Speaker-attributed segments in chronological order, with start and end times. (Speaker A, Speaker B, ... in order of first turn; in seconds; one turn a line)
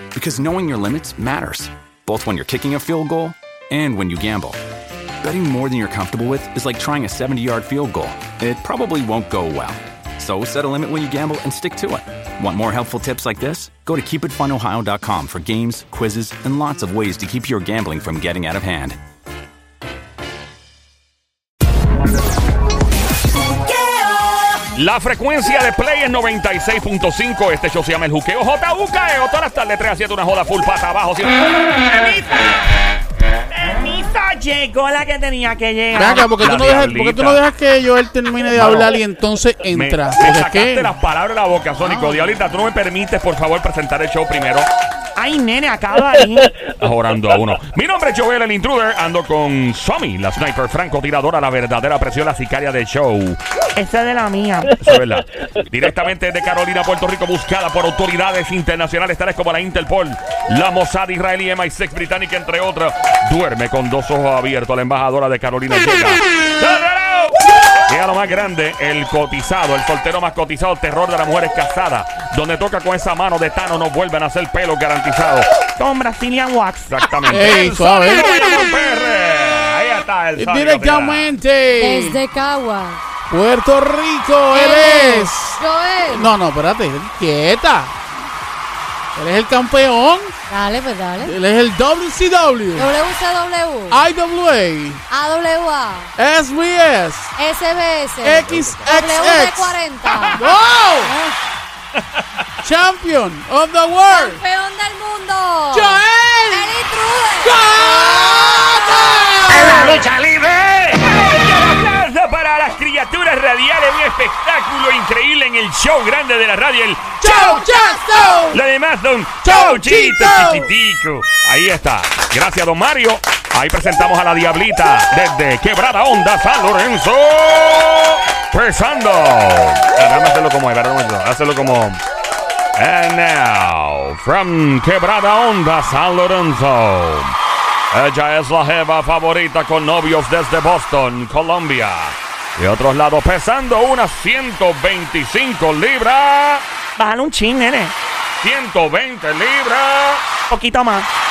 Speaker A: 0.1-4.6
Speaker A: 5.2-19.0
Speaker B: 24.7-31.4
Speaker C: 32.0-32.3
Speaker C: 33.5-36.3
Speaker D: 35.9-40.9
Speaker B: 36.4-37.4
Speaker B: 38.5-38.9
Speaker B: 39.7-44.7
Speaker D: 41.8-42.3
Speaker C: 45.1-46.5
Speaker B: 46.8-53.4
Speaker C: 53.8-54.8
Speaker B: 54.8-75.5
Speaker C: 75.8-77.1
Speaker B: 76.9-81.3
Speaker D: 77.3-78.3
Speaker D: 80.3-82.2
Speaker E: 81.8-83.0
Speaker D: 83.3-87.9
Speaker E: 84.5-86.3
Speaker D: 89.1-90.3
Speaker E: 90.5-91.3
Speaker D: 91.2-92.9
Speaker E: 92.7-94.0
Speaker D: 93.9-95.0
Speaker E: 95.1-96.1
Speaker D: 96.2-97.3
Speaker E: 97.4-100.4
Speaker D: 98.2-101.1
Speaker E: 101.0-101.4
Speaker D: 102.6-104.4
Speaker E: 104.1-108.1
Speaker D: 105.7-106.7
Speaker D: 107.4-110.1
Speaker B: 110.8-132.0
Speaker D: 117.2-118.6
Speaker D: 119.4-120.7
Speaker B: 132.7-137.3
Speaker B: 137.9-146.6
Speaker C: 146.9-147.9
Speaker B: 148.4-150.2
Speaker C: 150.5-151.1